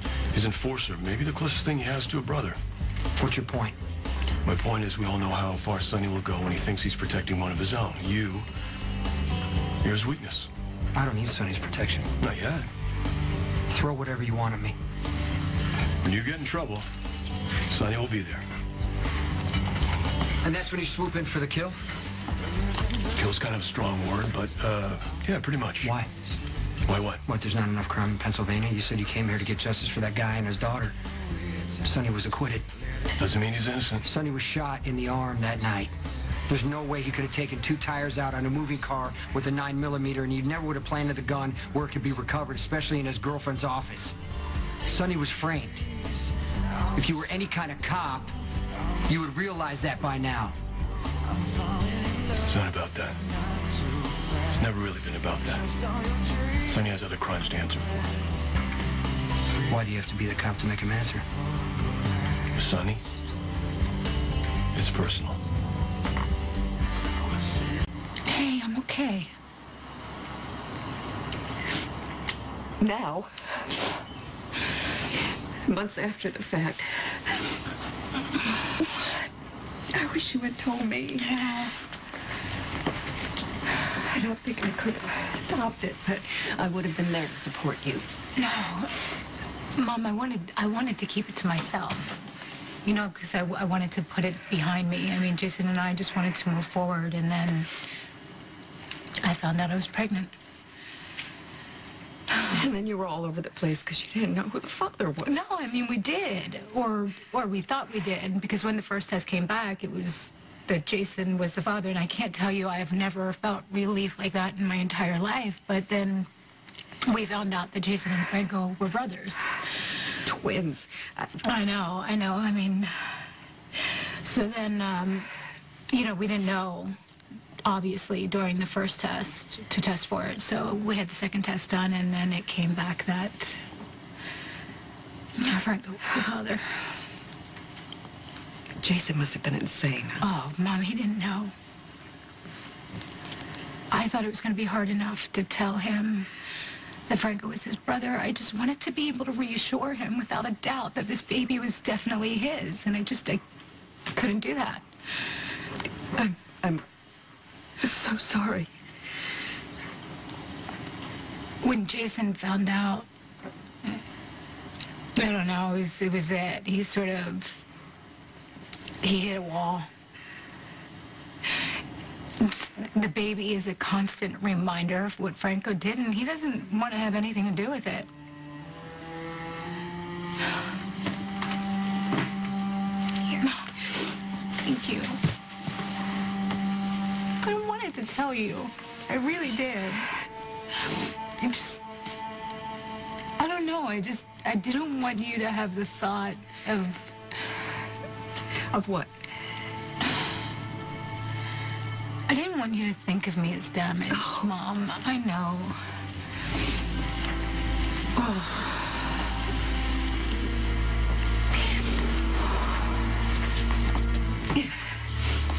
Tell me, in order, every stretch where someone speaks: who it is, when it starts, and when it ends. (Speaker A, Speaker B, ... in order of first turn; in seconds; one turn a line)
Speaker A: 0.3-2.6
Speaker B: 3.2-3.7
Speaker A: 4.4-8.5
Speaker A: 9.8-10.5
Speaker B: 10.9-12.1
Speaker A: 12.2-12.7
Speaker B: 13.7-14.8
Speaker A: 16.0-16.9
Speaker A: 17.7-18.4
Speaker B: 20.4-21.8
Speaker A: 23.1-25.9
Speaker B: 25.8-26.1
Speaker A: 26.9-27.2
Speaker B: 27.2-30.9
Speaker B: 31.8-32.6
Speaker A: 33.2-34.0
Speaker B: 34.0-35.9
Speaker B: 36.5-44.1
Speaker B: 44.9-45.9
Speaker B: 46.9-48.3
Speaker B: 49.1-50.5
Speaker A: 52.4-53.2
Speaker A: 54.5-55.7
Speaker A: 56.6-58.0
Speaker B: 59.7-61.2
Speaker A: 62.5-63.0
Speaker A: 64.7-65.4
Speaker C: 68.3-69.3
Speaker D: 72.8-73.3
Speaker D: 75.6-77.2
Speaker D: 79.9-81.7
Speaker D: 84.1-88.0
Speaker C: 88.3-89.0
Speaker C: 89.8-92.2
Speaker C: 92.8-97.8
Speaker C: 99.2-100.3
Speaker D: 102.3-105.4
Speaker C: 105.2-116.3
Speaker C: 117.0-119.6
Speaker D: 120.2-121.4
Speaker C: 121.4-123.3
Speaker C: 124.2-125.3
Speaker C: 125.9-126.9
Speaker C: 127.6-133.6
Speaker C: 135.4-136.8
Speaker D: 138.8-140.2
Speaker C: 140.2-141.5
Speaker C: 143.9-146.3
Speaker C: 147.1-153.4
Speaker C: 154.1-154.8
Speaker D: 156.2-156.8
Speaker D: 157.8-158.7
Speaker C: 161.6-163.1
Speaker C: 165.2-167.6
Speaker C: 169.0-169.8
Speaker C: 172.4-178.1
Speaker C: 183.3-183.9
Speaker C: 184.6-185.2
Speaker C: 187.4-190.1
Speaker C: 191.4-191.8
Speaker C: 193.4-197.1
Speaker D: 198.7-199.1
Speaker C: 202.3-205.8
Speaker D: 204.1-204.5